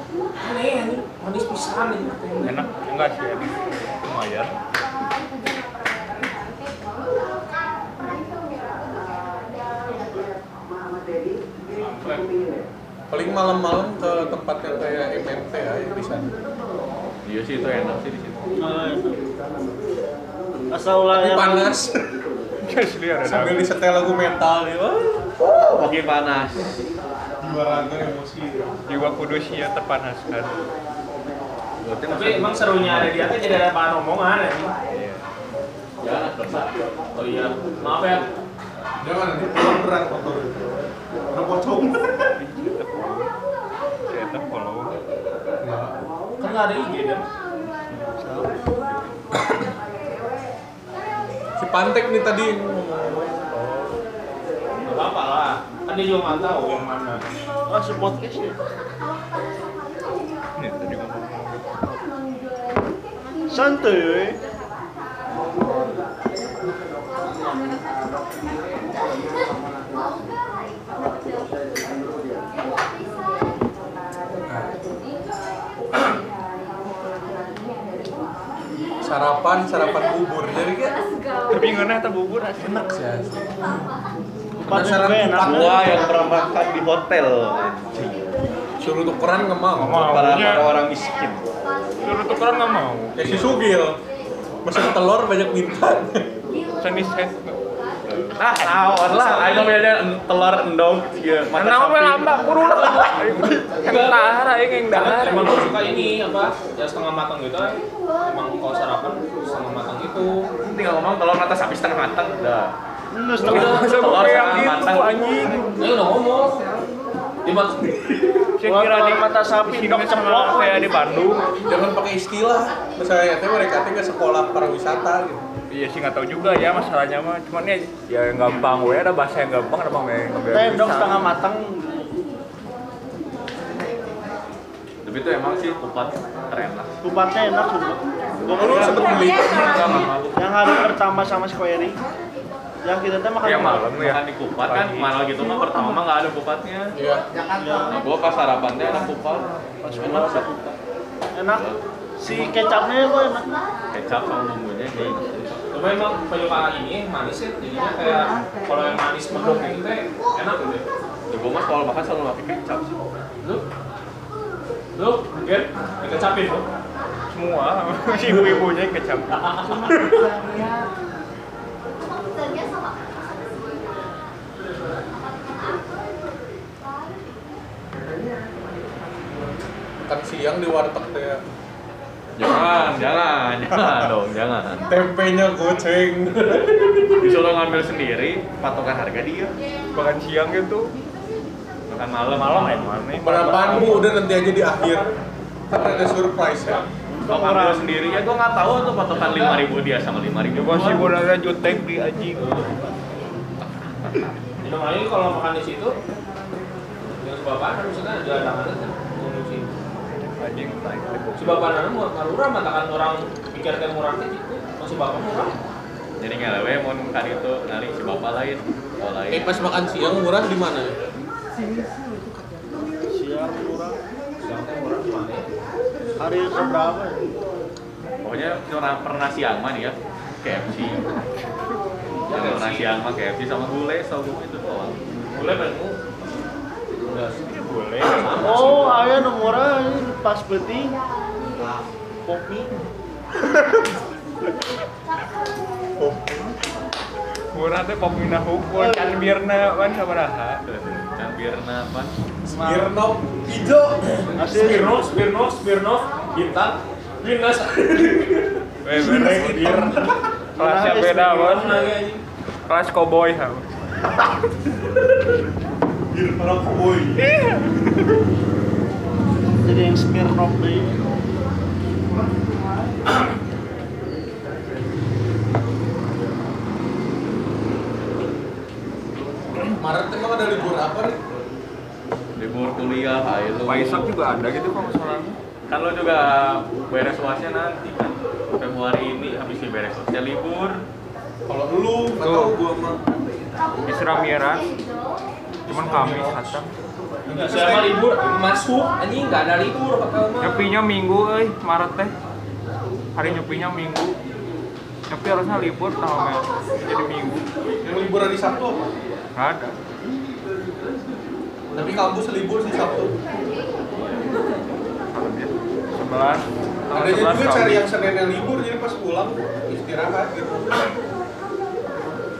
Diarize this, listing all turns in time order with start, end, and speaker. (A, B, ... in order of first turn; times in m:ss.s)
0:00.4-0:02.6 A
0:02.4-0:04.5 B
0:11.8-0:12.2 B
0:13.1-0:16.3 C
0:17.2-0:18.6 D
0:18.5-0:19.2 E
0:20.7-0:21.7 E
0:21.1-0:22.1 C
0:22.6-0:23.6 B
0:23.2-0:25.3 C
0:25.4-0:26.9 D
0:27.4-0:28.7 C
0:28.9-0:30.6 B
0:31.8-0:33.4 D
0:32.1-0:34.7 A
0:34.9-0:35.2 B
0:36.0-0:36.8 D
0:37.1-0:38.3 A
0:39.0-0:40.7 C
0:41.3-0:42.3 C
0:42.4-0:43.3 B
0:44.1-0:45.0 B
0:45.6-0:45.9 C
0:46.4-0:47.2 A
0:48.2-0:48.6 E
0:48.8-0:49.1 B
0:51.6-0:54.0 C
0:54.8-0:57.2 A
0:57.7-0:58.6 E
1:00.6-1:01.9 B
1:03.5-1:04.4 E
1:14.5-1:14.8 C
1:19.0-1:21.0 C
1:21.5-1:23.0 B
1:22.6-1:23.6 C
1:24.6-1:26.0 E
1:24.6-1:26.1 C
1:25.4-1:28.3 D
1:28.8-1:30.5 C
1:29.8-1:30.8 B
1:30.0-1:31.4 D
1:32.0-1:33.4 B
1:33.2-1:34.0 C
1:34.6-1:36.3 C
1:36.8-1:37.6 B
1:38.1-1:42.5 D
1:38.6-1:38.9 B
1:38.9-1:39.8 A
1:41.5-1:45.6 B
1:42.5-1:43.2 A
1:43.8-1:50.5 A
1:50.6-1:52.7 D
1:53.1-1:53.8 E
1:53.4-1:54.6 A
1:53.4-1:55.7 B
1:53.5-1:55.4 D
1:55.8-1:56.6 A
1:57.4-1:58.5 A
1:58.6-2:01.5 B
1:58.6-2:00.9 E
2:01.6-2:05.4 C
2:05.7-2:11.3 B
2:10.5-2:12.2 E
2:15.0-2:16.9 D
2:17.0-2:19.3 E
2:18.5-2:20.1 C
2:18.5-2:20.4 D
2:20.4-2:22.0 E
2:22.8-2:23.9 E
2:23.4-2:25.1 B
2:23.6-2:27.0 D
2:26.9-2:27.2 C
2:27.6-2:28.0 E
2:27.9-2:30.7 D
2:29.8-2:30.7 E
2:31.3-2:31.7 E
2:31.5-2:31.8 D
2:32.2-2:33.5 E
2:33.9-2:35.6 D
2:35.7-2:40.8 A
2:41.3-2:43.0 D
2:44.9-2:46.6 A
2:47.3-2:49.9 B
2:48.2-2:48.6 A
2:49.3-2:50.2 A
3:00.1-3:01.4 C
3:02.4-3:04.9 D
3:03.7-3:04.1 C
3:04.9-3:06.9 C
3:06.7-3:07.0 A
3:07.2-3:09.5 D
3:09.9-3:10.9 B
3:11.9-3:12.9 D
3:12.3-3:14.1 B
3:13.2-3:15.1 C
3:15.7-3:16.9 C
3:17.1-3:18.0 E
3:17.3-3:21.1 D
3:19.1-3:19.6 A
3:20.5-3:22.5 B
3:22.4-3:22.7 A
3:23.6-3:24.3 D
3:24.6-3:26.0 A
3:27.1-3:29.7 A
3:30.4-3:31.7 B
3:31.4-3:35.6 A
3:36.2-3:39.5 D
3:39.3-3:41.0 C
3:43.1-3:44.0 E
3:44.4-3:45.5 A
3:46.2-3:47.3 E
3:48.2-3:51.1 D
3:52.3-3:52.9 A
3:52.3-3:55.0 D
3:55.3-3:56.0 A
3:57.4-3:58.6 B
3:58.0-3:59.1 D
3:58.4-4:01.0 E
4:02.2-4:02.7 E
4:03.4-4:03.9 C
4:06.0-4:06.3 C
4:07.5-4:10.6 B
4:08.8-4:09.1 E
4:10.6-4:12.1 D
4:12.4-4:14.4 C
4:12.6-4:12.9 E
4:14.4-4:15.0 E
4:14.4-4:20.1 A
4:18.8-4:21.9 B
4:19.0-4:20.0 C
4:20.6-4:21.7 E
4:21.3-4:22.2 A
4:22.7-4:23.7 B
4:26.3-4:27.1 C
4:27.2-4:27.9 B
4:29.6-4:30.9 E
4:39.7-4:41.2 C
4:42.4-4:44.1 D
4:43.7-4:45.4 B
4:45.7-4:50.8 D
4:51.5-4:53.0 C
4:52.2-4:52.5 B
4:53.8-4:54.7 B
4:55.6-4:56.6 C
4:55.7-4:56.7 B
4:57.2-4:57.9 C
4:57.3-5:00.7 A
5:00.4-5:02.1 B
5:03.2-5:04.1 B
5:05.1-5:07.4 B
5:07.8-5:08.9 C
5:09.4-5:09.7 B
5:11.7-5:13.1 C
5:15.1-5:17.8 B
5:16.9-5:20.9 C